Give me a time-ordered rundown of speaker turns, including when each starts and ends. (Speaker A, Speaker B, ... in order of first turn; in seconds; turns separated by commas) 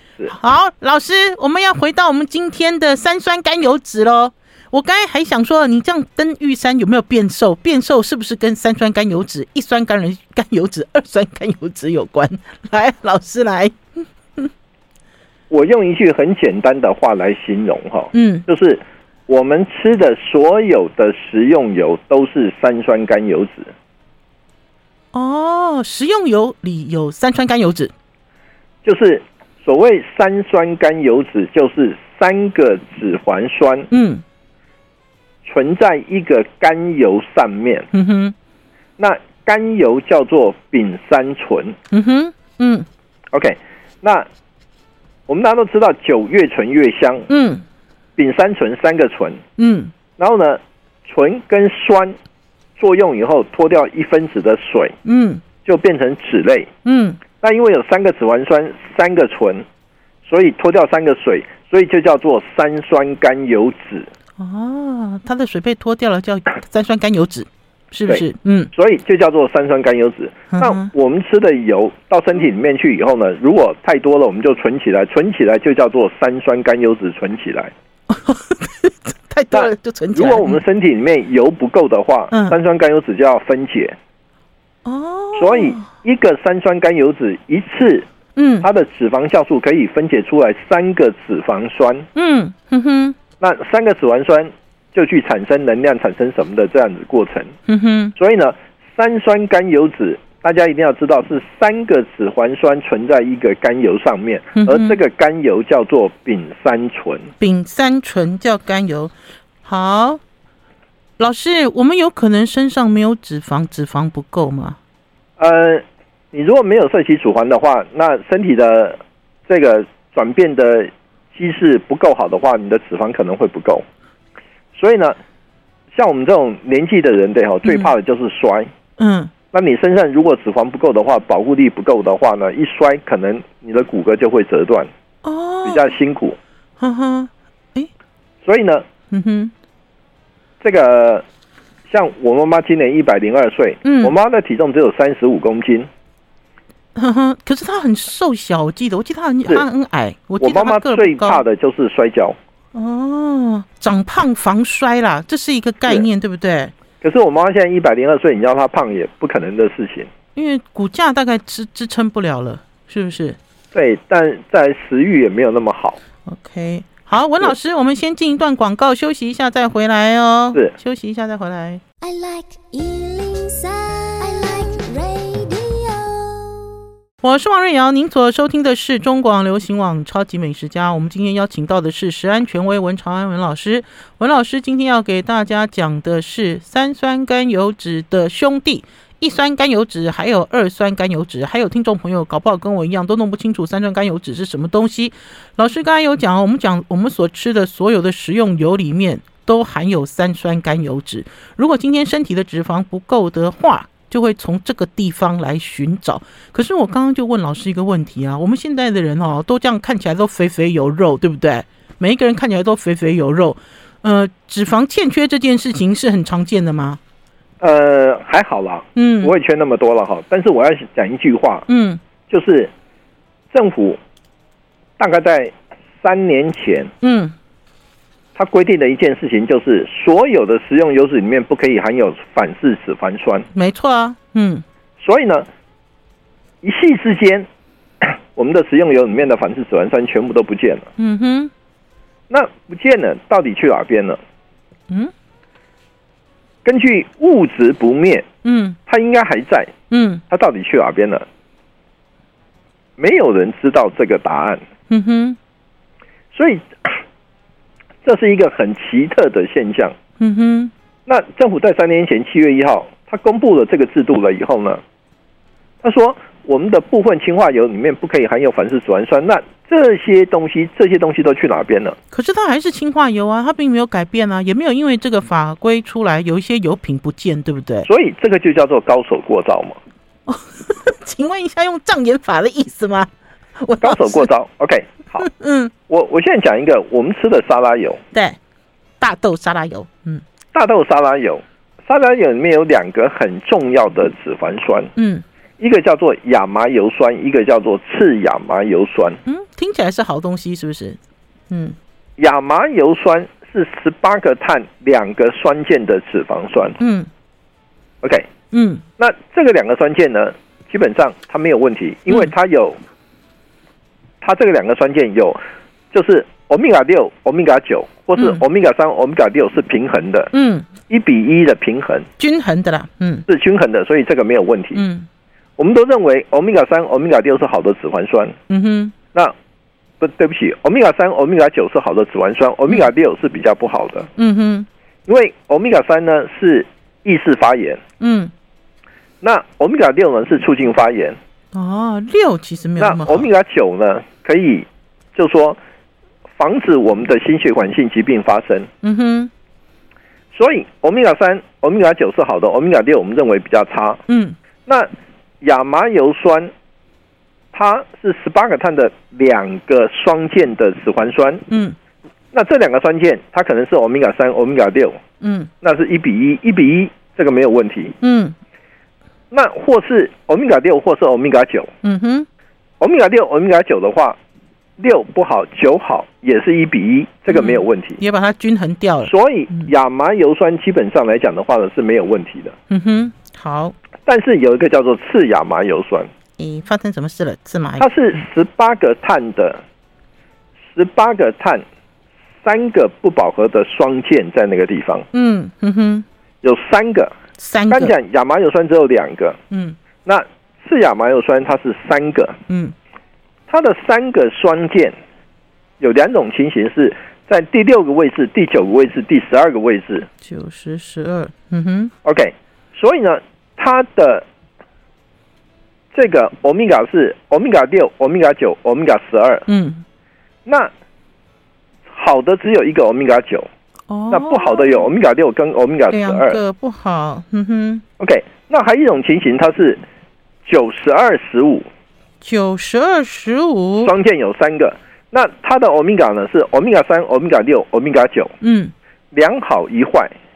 Speaker A: 0.3-13.8, Speaker B: 15.5-23.7, Speaker A: 18.1-18.4, Speaker A: 25.1-27.9, Speaker B: 28.8-33.9, Speaker A: 33.9-34.2, Speaker B: 35.4-37.9, Speaker A: 37.9-38.3, Speaker B: 39.0-41.8, Speaker A: 41.9-42.9, Speaker B: 43.3-44.3, Speaker B: 45.3-47.3, Speaker A: 47.3-47.6, Speaker B: 48.2-49.4, Speaker A: 49.6-49.9, Speaker B: 50.2-52.2, Speaker B: 52.8-55.0, Speaker A: 55.0-55.4, Speaker B: 55.6-56.7, Speaker A: 56.8-57.2, Speaker B: 57.4-59.6, Speaker B: 60.2-64.1, Speaker A: 64.4-68.7, Speaker B: 68.1-77.7, Speaker A: 70.5-70.9, Speaker A: 78.1-80.6, Speaker B: 79.5-84.0, Speaker A: 82.3-82.6, Speaker A: 84.8-85.9, Speaker B: 85.3-88.1, Speaker A: 88.3-88.7, Speaker B: 88.6-92.0, Speaker A: 92.1-93.2, Speaker B: 93.4-97.5, Speaker A: 97.7-98.1, Speaker B: 98.2-107.3, Speaker A: 104.5-105.0, Speaker A: 107.4-109.1, Speaker A: 109.6-110.2, Speaker A: 111.2-114.8, Speaker B: 115.4-123.8, Speaker B: 124.7-125.2, Speaker B: 125.9-128.7, Speaker A: 129.0-129.3, Speaker B: 129.5-134.9, Speaker A: 135.2-135.9, Speaker B: 135.6-136.4, Speaker A: 136.8-137.9, Speaker B: 138.4-138.8, Speaker A: 139.1-139.5, Speaker B: 140.6-141.2, Speaker B: 141.9-145.9, Speaker A: 143.8-144.1, Speaker A: 146.9-151.4, Speaker B: 150.4-152.3, Speaker A: 152.7-156.7, Speaker B: 157.0-160.1, Speaker A: 160.3-163.4, Speaker B: 163.7-166.0, Speaker A: 166.2-171.8, Speaker C: 172.0-176.7, Speaker A: 177.2-217.0, Speaker B: 217.6-221.7, Speaker A: 218.9-219.3, Speaker A: 221.7-222.0, Speaker B: 222.3-222.7, Speaker B: 223.5-224.0, Speaker B: 225.0-226.9, Speaker A: 227.0-227.3, Speaker B: 228.3-233.5, Speaker A: 233.5-234.6, Speaker B: 235.0-235.4, Speaker B: 236.6-237.5, Speaker B: 238.0-240.9, Speaker A: 241.0-241.5, Speaker B: 242.3-244.2, Speaker B: 246.6-248.2, Speaker A: 248.4-248.8, Speaker B: 248.9-249.7, Speaker A: 249.9-250.2, Speaker B: 250.3-251.2, Speaker B: 253.0-254.6, Speaker A: 254.9-255.4, Speaker B: 256.3-257.0, Speaker B: 258.0-259.9, Speaker A: 260.2-260.7, Speaker B: 261.1-264.8, Speaker B: 265.8-271.9, Speaker A: 272.1-277.9, Speaker B: 277.8-279.8, Speaker A: 280.3-284.3, Speaker B: 283.8-285.3, Speaker A: 285.2-285.7, Speaker B: 285.9-288.0, Speaker A: 288.1-288.4, Speaker A: 289.0-290.2, Speaker B: 290.5-294.9, Speaker A: 294.9-295.2, Speaker B: 295.6-299.2, Speaker A: 299.2-301.0, Speaker A: 301.5-301.8, Speaker B: 302.2-306.8, Speaker A: 306.8-307.1, Speaker B: 308.0-308.3, Speaker A: 308.5-308.8, Speaker B: 309.0-312.8, Speaker B: 314.2-315.4, Speaker B: 315.9-320.3, Speaker A: 320.3-320.7, Speaker B: 320.9-322.1, Speaker A: 322.2-323.2, Speaker B: 323.3-324.8, Speaker A: 324.7-325.1, Speaker B: 325.6-328.4, Speaker A: 328.5-328.9, Speaker B: 330.0-334.1, Speaker A: 334.2-334.7, Speaker B: 335.1-337.8, Speaker A: 338.0-338.3, Speaker B: 339.2-341.2, Speaker A: 341.5-343.3, Speaker B: 342.8-345.6, Speaker B: 346.4-348.7, Speaker A: 348.8-349.3, Speaker B: 350.3-354.0, Speaker A: 354.1-354.4, Speaker B: 355.4-356.5, Speaker B: 357.5-361.4, Speaker A: 361.5-361.8, Speaker B: 362.3-365.0, Speaker A: 365.2-365.5, Speaker B: 365.6-367.9, Speaker A: 368.0-368.3, Speaker B: 369.3-371.7, Speaker A: 371.8-372.3, Speaker B: 372.8-374.2, Speaker B: 374.8-378.0, Speaker A: 377.3-379.7, Speaker B: 379.0-382.5, Speaker A: 382.7-383.7, Speaker B: 384.1-386.1, Speaker A: 386.4-387.9, Speaker B: 387.8-389.6, Speaker B: 390.7-391.6, Speaker B: 392.4-395.1, Speaker A: 395.1-396.1, Speaker B: 396.4-397.1, Speaker A: 397.4-397.9, Speaker B: 397.7-399.4, Speaker A: 399.5-399.8, Speaker B: 400.0-402.4, Speaker A: 402.5-402.7, Speaker B: 403.5-404.9, Speaker B: 405.8-410.1, Speaker A: 410.2-411.9, Speaker B: 412.0-414.2, Speaker B: 415.9-419.4, Speaker A: 419.5-419.8, Speaker B: 420.4-420.7, Speaker B: 421.9-423.5, Speaker A: 423.9-424.9, Speaker B: 424.1-426.4, Speaker A: 425.9-427.8, Speaker B: 428.0-429.8, Speaker B: 430.4-431.7, Speaker A: 432.2-433.9, Speaker B: 433.8-438.3, Speaker A: 438.4-438.7, Speaker B: 439.1-440.1